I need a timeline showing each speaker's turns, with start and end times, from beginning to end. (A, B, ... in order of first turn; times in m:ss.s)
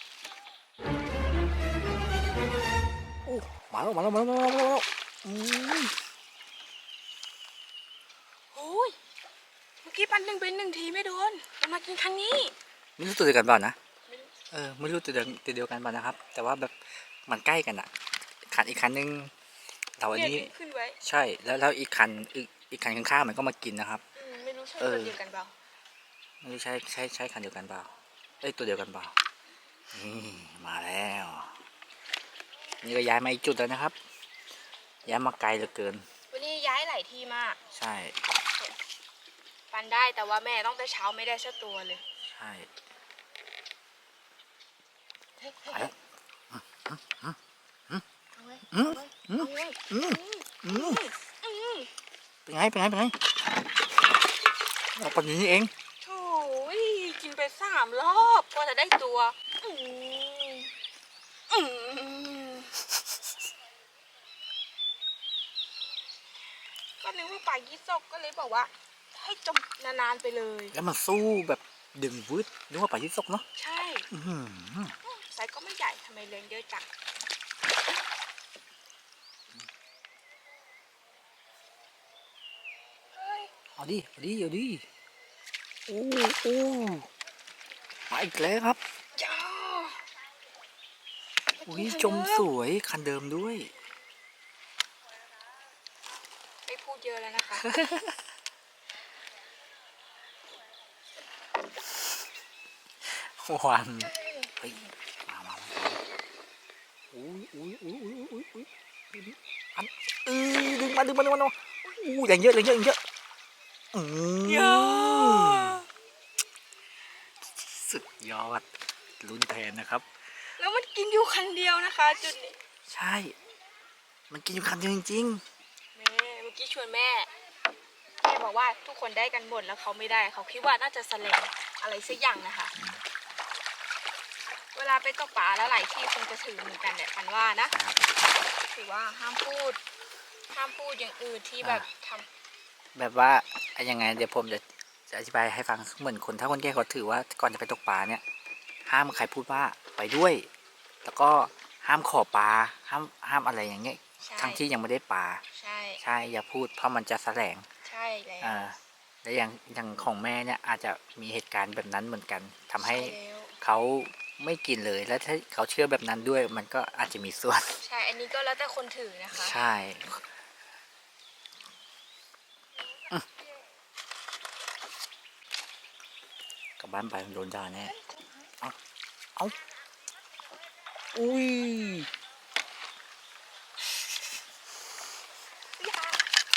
0:03.2-0:05.9 A
0:08.5-0:09.0 B
0:09.8-0:12.5 B
0:13.0-0:13.8 A
0:14.1-0:14.3 B
0:14.5-0:17.9 A
0:18.5-0:19.3 A
0:20.0-0:24.0 A
0:20.1-0:21.0 B
0:24.2-0:25.5 B
0:24.8-0:25.2 A
0:26.4-0:29.1 A
0:29.9-0:31.6 A
0:32.8-0:34.0 A
0:35.0-0:36.1 A
0:36.3-0:37.6 B
0:37.7-0:38.2 A
0:39.7-0:42.0 B
0:42.3-0:42.7 A
0:45.5-0:45.8 B
0:45.7-0:46.0 A
0:46.5-0:47.4 A
0:48.4-0:51.9 B
0:48.7-0:51.0 A
0:52.5-0:53.2 A
0:55.0-0:55.7 A
0:56.0-1:00.7 B
1:01.5-1:02.9 B
1:07.0-1:10.8 B
1:10.7-1:13.4 A
1:13.6-1:14.1 B
1:14.1-1:15.0 A
1:15.0-1:16.9 B
1:23.2-1:23.5 B
1:23.8-1:24.8 A
1:25.9-1:27.1 A
1:28.1-1:28.8 A
1:29.2-1:30.1 B
1:31.6-1:32.5 B
1:31.7-1:33.8 A
1:36.7-1:37.7 B
1:37.6-1:38.2 A
1:43.0-1:46.0 A
1:44.0-1:44.9 B
1:47.1-1:53.0 A
1:53.9-1:55.8 A
1:54.4-1:55.9 B
1:57.4-1:58.7 A
1:59.2-2:00.1 A
2:00.6-2:02.6 B
2:02.9-2:03.4 A
2:04.3-2:05.4 A
2:06.0-2:07.3 B
2:08.2-2:12.7 B
2:14.8-2:17.8 B
2:17.7-2:18.0 A
2:18.7-2:19.8 B
2:20.5-2:22.3 B
2:21.6-2:21.9 A
2:23.0-2:28.2 A
2:28.9-2:30.5 A
2:31.0-2:35.4 A
2:34.3-2:34.6 B
2:35.5-2:36.0 B
2:36.0-2:37.7 A
2:37.8-2:38.7 B
2:38.4-2:47.8 A
2:42.8-2:43.6 B
2:47.8-2:49.6 B
2:49.3-2:50.2 A
2:56.8-2:58.0 A
3:01.1-3:02.1 A
3:05.8-3:06.3 B